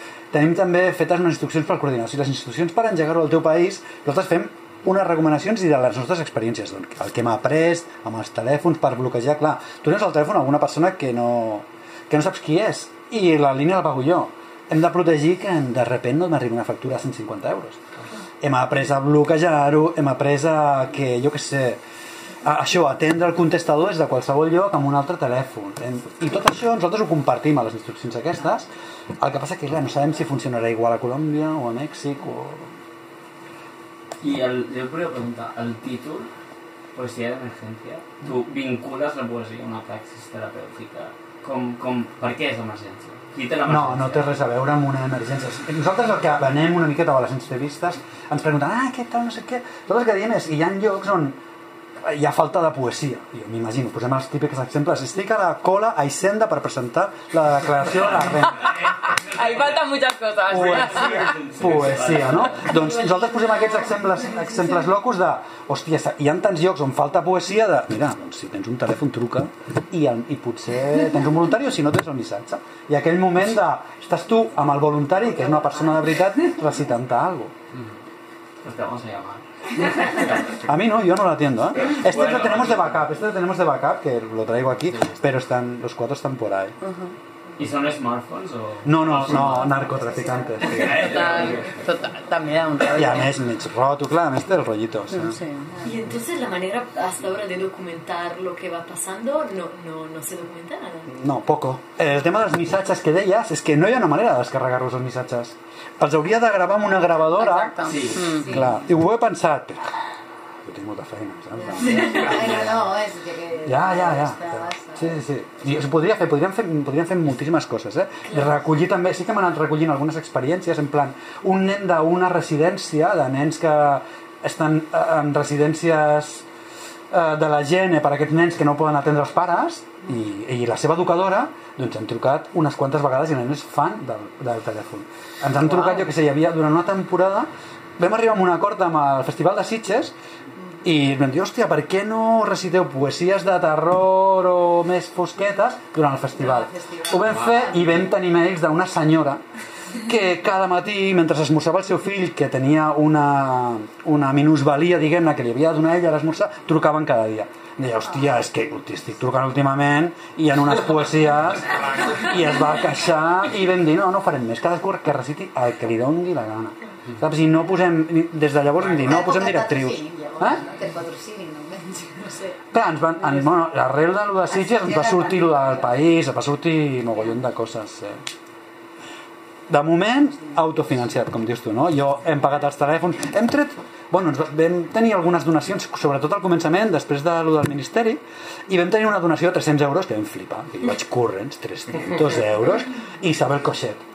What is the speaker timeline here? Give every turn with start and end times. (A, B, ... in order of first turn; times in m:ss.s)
0:00.3-0:17.8 A
0:18.4-0:21.8 A
0:22.4-0:28.7 A
0:29.2-0:32.7 A
0:34.2-0:36.3 B
0:36.9-0:44.4 B
0:43.6-0:51.4 A
0:52.0-0:58.7 A
0:59.2-1:01.4 C
0:59.4-0:59.7 B
1:00.5-1:02.8 B
1:00.5-1:17.5 A
1:18.6-1:20.6 B
1:20.6-1:26.8 A
1:21.8-1:23.0 B
1:26.8-1:27.1 C
1:27.6-1:29.8 B
1:28.8-1:31.0 A
1:29.7-1:30.5 D
1:30.6-1:33.3 C
1:30.7-1:31.7 B
1:32.9-1:35.4 A
1:35.1-1:35.7 C
1:35.8-1:41.1 E
1:41.1-1:49.9 A
1:47.3-1:48.6 C
1:47.8-1:48.2 B
1:50.6-1:52.9 A
1:51.6-1:55.2 D
1:53.6-2:06.4 A
2:07.1-2:20.1 A
2:20.8-2:29.4 A
2:26.3-2:28.0 D
2:30.0-2:50.6 A
2:48.8-2:52.6 D
2:52.7-2:58.2 A
2:53.2-2:53.6 D
2:54.5-2:56.1 D
2:59.7-3:14.0 A